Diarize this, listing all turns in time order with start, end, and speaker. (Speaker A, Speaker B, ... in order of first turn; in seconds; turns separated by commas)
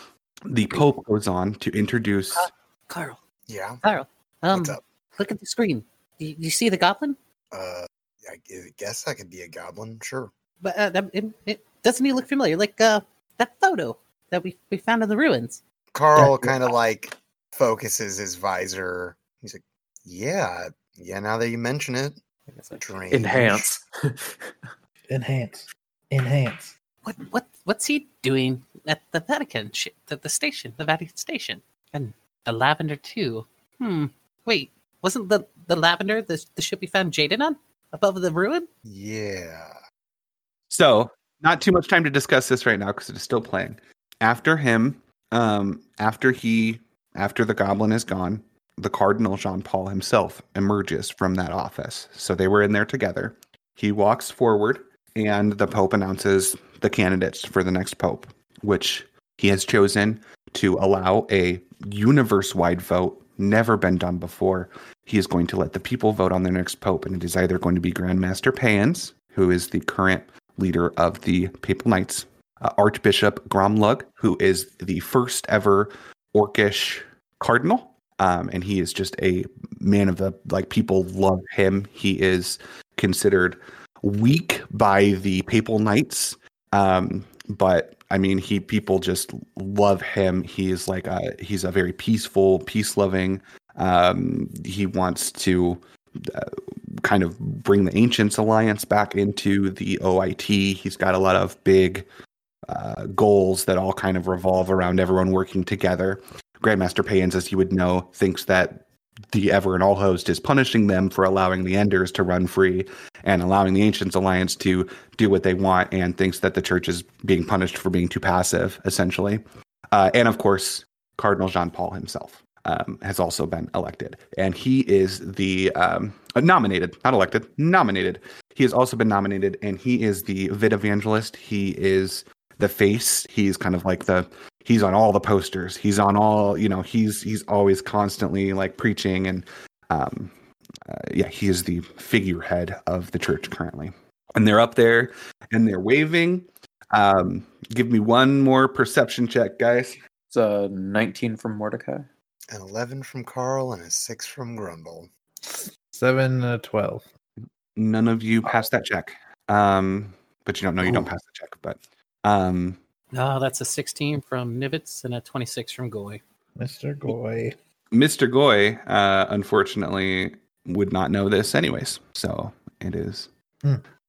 Speaker A: 0.5-2.5, Speaker B: 2.4-3.2, Speaker C: 3.5-3.8, Speaker B: 3.8-7.2, Speaker C: 4.5-4.8, Speaker C: 7.5-10.3, Speaker B: 10.6-15.6, Speaker C: 15.9-23.7, Speaker D: 16.1-16.6, Speaker E: 23.1-24.5, Speaker D: 25.1-26.7, Speaker B: 27.0-38.7, Speaker C: 38.9-39.7, Speaker A: 40.7-102.1, Speaker A: 102.7-140.3, Speaker A: 140.8-150.0, Speaker E: 150.3-152.1, Speaker C: 152.5-155.1, Speaker D: 155.4-157.1, Speaker A: 157.8-162.8, Speaker B: 163.1-166.2, Speaker D: 166.6-167.5, Speaker A: 167.9-173.3